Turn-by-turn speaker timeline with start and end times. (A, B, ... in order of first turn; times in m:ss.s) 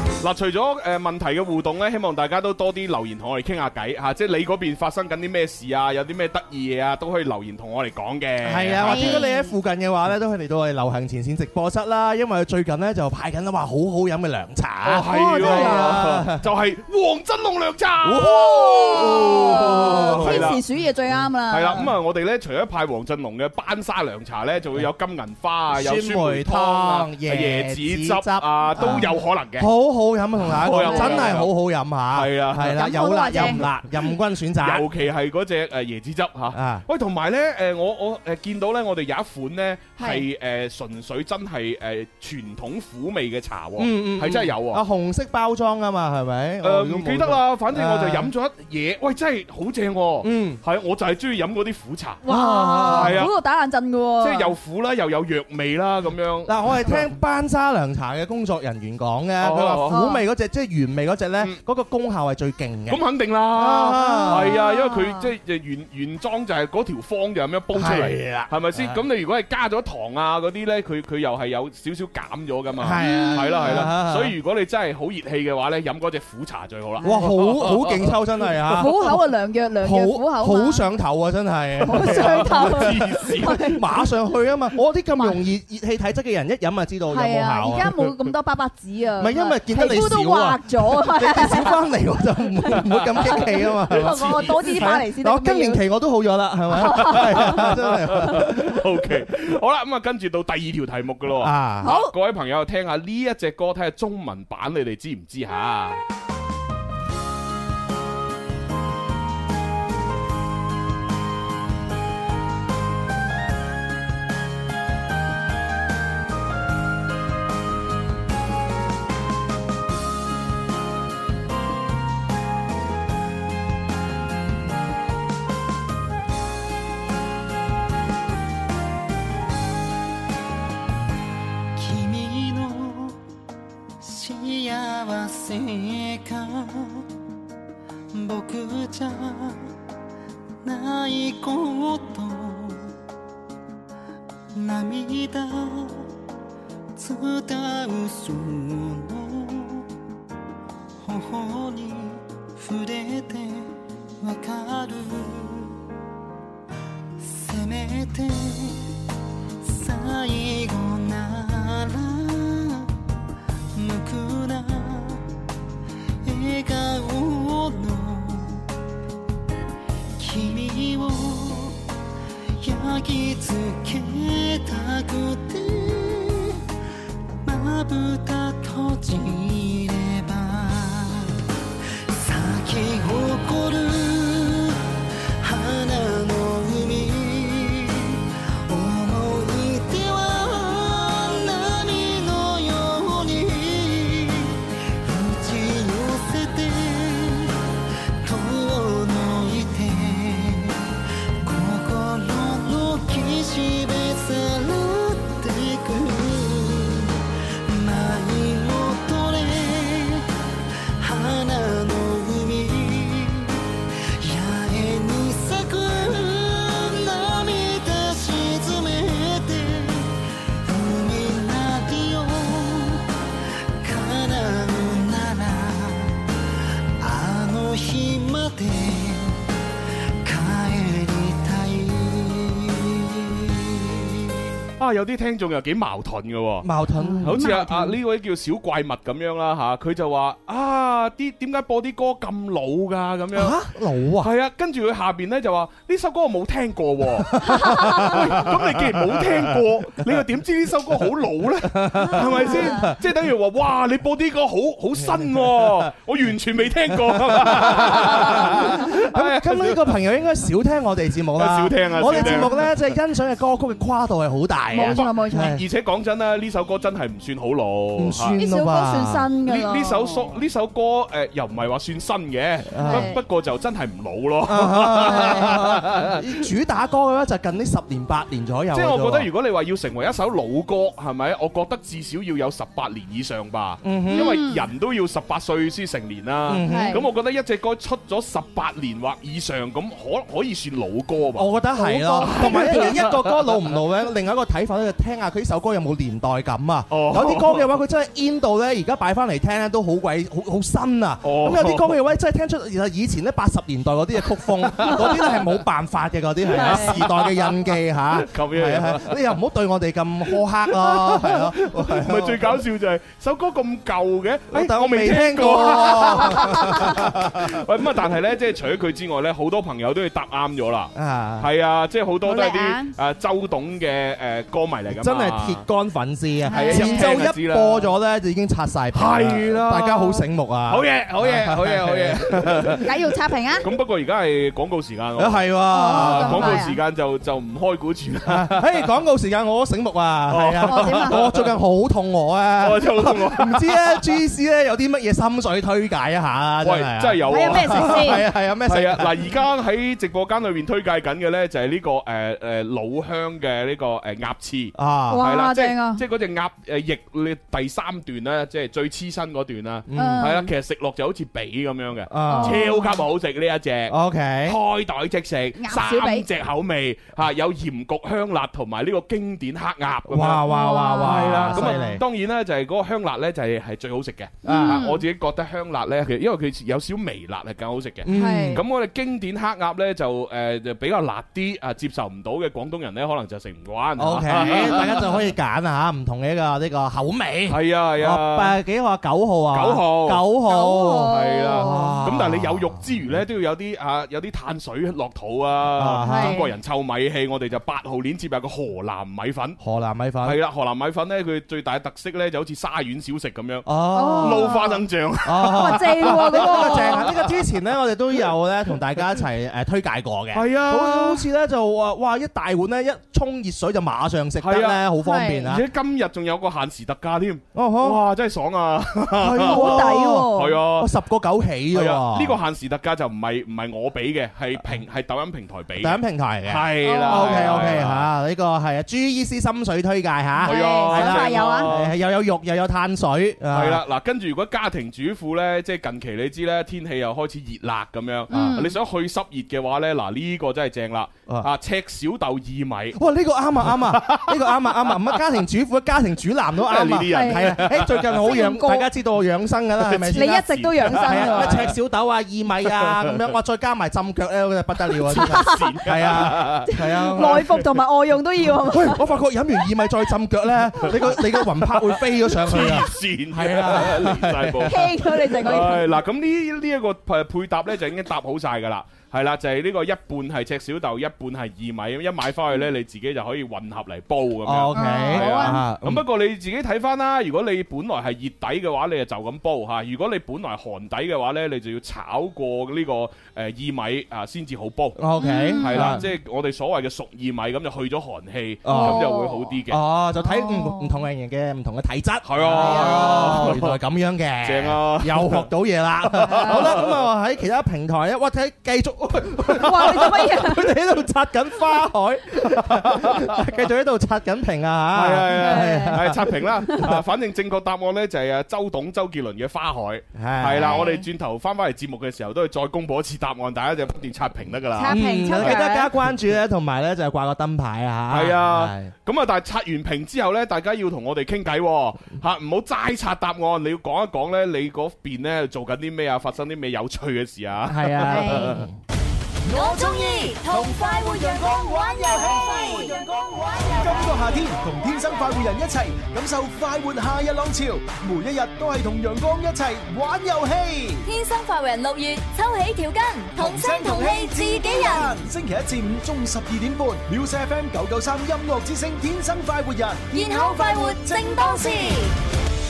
0:00.2-0:09.2 A
0:08.4-0:16.4 B
0:08.8-0:09.5 C
0:14.8-0:20.6 A
0:15.0-0:15.9 C
0:18.0-0:20.6 B
0:18.8-0:21.9 C
0:21.5-0:29.7 A
0:25.7-0:34.9 B
0:30.5-0:31.5 A
0:30.8-0:31.4 C
0:32.1-0:33.7 A
0:32.7-0:33.6 C
0:34.6-0:44.8 A
0:36.5-0:36.8 B
0:40.0-0:40.2 C
0:43.8-0:48.3 B
0:46.6-0:52.2 A
0:50.2-0:50.6 B
0:52.2-0:53.3 B
0:52.2-0:54.5 C
0:52.9-0:53.3 A
0:54.2-0:57.1 A
0:56.5-1:04.6 B
0:59.4-1:00.0 A
0:59.9-1:00.2 C
1:02.9-1:18.9 A
1:03.9-1:05.3 C
1:07.7-1:09.0 B
1:12.8-1:14.4 B
1:13.0-1:13.9 C
1:17.0-1:17.3 C
1:17.0-1:19.2 B
1:18.8-1:20.8 C
1:19.8-1:23.1 B
1:21.8-1:23.8 C
1:21.9-1:23.7 A
1:23.7-1:28.0 B
1:27.1-1:31.8 C
1:29.2-1:38.8 B
1:32.7-1:35.8 C
1:32.9-1:35.0 A
1:36.8-1:37.6 C
1:36.8-1:46.0 A
1:41.4-1:41.9 B
1:41.8-1:42.1 C
2:11.8-2:13.2 D
2:14.0-2:17.0 D
2:18.1-2:19.6 D
2:20.6-2:22.9 D
2:24.6-2:26.0 D
2:27.0-2:29.8 D
2:31.0-2:33.7 D
2:34.2-2:35.7 D
2:37.3-2:38.8 D
2:39.7-2:42.8 D
2:43.8-2:45.2 D
2:46.3-2:48.6 D
2:50.2-2:51.8 D
2:52.6-2:56.6 D
2:57.5-3:01.3 D
3:02.2-3:04.8 D
3:05.4-3:17.5 D
3:18.2-3:20.8 D
3:21.4-3:27.1 D
3:27.7-3:30.3 D
3:31.0-3:33.6 D
3:34.2-3:40.2 D
3:40.7-3:43.0 D
3:43.8-3:46.1 D
3:47.0-3:49.3 D
3:50.2-3:53.5 D
3:54.8-3:56.7 A
3:56.6-3:57.7 B
3:57.0-3:57.9 C
3:57.2-4:03.6 A
4:03.3-4:04.3 B
4:04.2-4:20.0 A
4:07.3-4:10.0 B
4:11.7-4:13.0 B
4:15.0-4:15.9 B
4:17.0-4:25.6 B
4:21.4-4:22.7 A
4:22.0-4:22.6 C
4:24.7-4:25.6 C
4:24.9-4:28.4 A
4:28.0-4:29.3 B
4:28.4-4:30.3 C
4:29.5-4:36.2 A
4:32.7-4:33.1 B
4:32.8-4:33.2 C
4:34.5-4:39.3 B
4:35.1-4:35.5 C
4:38.7-4:53.8 A
4:43.8-4:44.4 B
4:44.1-4:44.6 C
4:46.5-4:47.1 B
4:46.6-4:47.0 C
4:51.4-5:12.6 B
4:51.8-4:53.0 C
4:56.9-4:57.7 A
5:01.2-5:02.0 A
5:04.8-5:05.5 A
5:06.5-5:09.2 A
5:06.5-5:07.0 C
5:10.3-5:25.6 A
5:14.5-5:17.6 B
5:16.3-5:16.7 C
5:21.0-5:21.5 B
5:22.3-5:22.9 C
5:24.9-5:32.9 B
5:26.5-5:27.2 C
5:26.5-5:27.9 A
5:28.9-5:32.9 A
5:32.8-5:33.7 C
5:33.6-5:38.8 A
5:35.2-5:36.6 B
5:35.7-5:36.8 C
5:38.3-5:49.2 B
5:40.3-5:41.5 A
5:40.7-5:41.2 C
5:42.6-5:44.1 A
5:46.6-6:10.5 A
5:47.3-5:48.2 C
5:54.8-5:55.2 B
5:55.1-5:56.0 C
5:59.9-6:00.3 B
6:00.0-6:00.5 C
6:02.1-6:02.6 B
6:02.3-6:03.0 C
6:03.9-6:04.6 B
6:05.6-6:06.3 C
6:10.1-6:12.0 B
6:10.5-6:12.0 C
6:11.0-6:25.2 A
6:14.4-6:15.0 C
6:14.5-6:14.8 B
6:18.0-6:18.6 B
6:18.1-6:18.6 C
6:24.0-6:32.8 B
6:24.4-6:24.7 C
6:27.5-6:28.6 A
6:29.5-6:30.3 A
6:30.5-6:32.1 C
6:31.0-6:39.6 A
6:35.8-6:36.4 B
6:36.0-6:36.4 C
6:39.6-6:40.4 B
6:40.2-6:47.6 A
6:43.7-6:44.5 B
6:43.9-6:44.8 C
6:45.2-6:55.6 B
6:45.4-6:47.0 C
6:50.3-6:51.2 A
6:54.4-6:54.9 A
6:55.0-6:55.5 C
6:55.4-7:00.9 A
6:57.6-6:58.0 B
6:59.2-7:02.4 B
6:59.4-7:00.6 C
7:01.7-7:08.1 A
7:05.8-7:13.8 B
7:06.8-7:07.7 C
7:10.4-7:11.7 C
7:10.4-7:11.9 A
7:13.5-7:23.0 A
7:18.3-7:18.8 C
7:23.0-7:37.5 B
7:23.7-7:25.2 A
7:26.6-7:28.4 A
7:27.1-7:27.6 C
7:28.2-7:28.9 C
7:29.8-7:31.8 A
7:30.1-7:31.7 C
7:32.8-7:33.2 A
7:35.0-7:37.6 A
7:35.2-7:35.6 C
7:37.0-7:39.0 C
7:38.7-7:44.9 B
7:41.8-8:05.0 A
7:44.7-7:45.9 C
7:54.4-7:56.0 B
7:54.7-7:55.6 C
8:05.0-8:06.0 B
8:05.2-8:06.0 C
8:05.6-8:09.8 A
8:08.6-8:09.1 B
8:08.7-8:09.5 C
8:09.7-8:26.2 B
8:10.2-8:11.0 C
8:12.2-8:13.8 A
8:12.6-8:13.6 C
8:14.4-8:15.5 A
8:16.1-8:17.1 A
8:16.3-8:16.6 C
8:19.6-8:20.7 C
8:22.6-8:23.4 A
8:24.9-8:35.6 A
8:25.4-8:26.0 C
8:30.2-8:31.0 B
8:30.6-8:31.0 C
8:34.8-8:35.9 C
8:34.9-8:38.9 B
8:38.1-8:48.6 A
8:47.7-8:48.8 B
8:48.0-8:48.6 C
8:49.5-8:54.2 E
8:49.5-9:01.1 F
9:01.0-9:05.2 E
9:03.4-9:12.0 F
9:10.1-9:12.1 E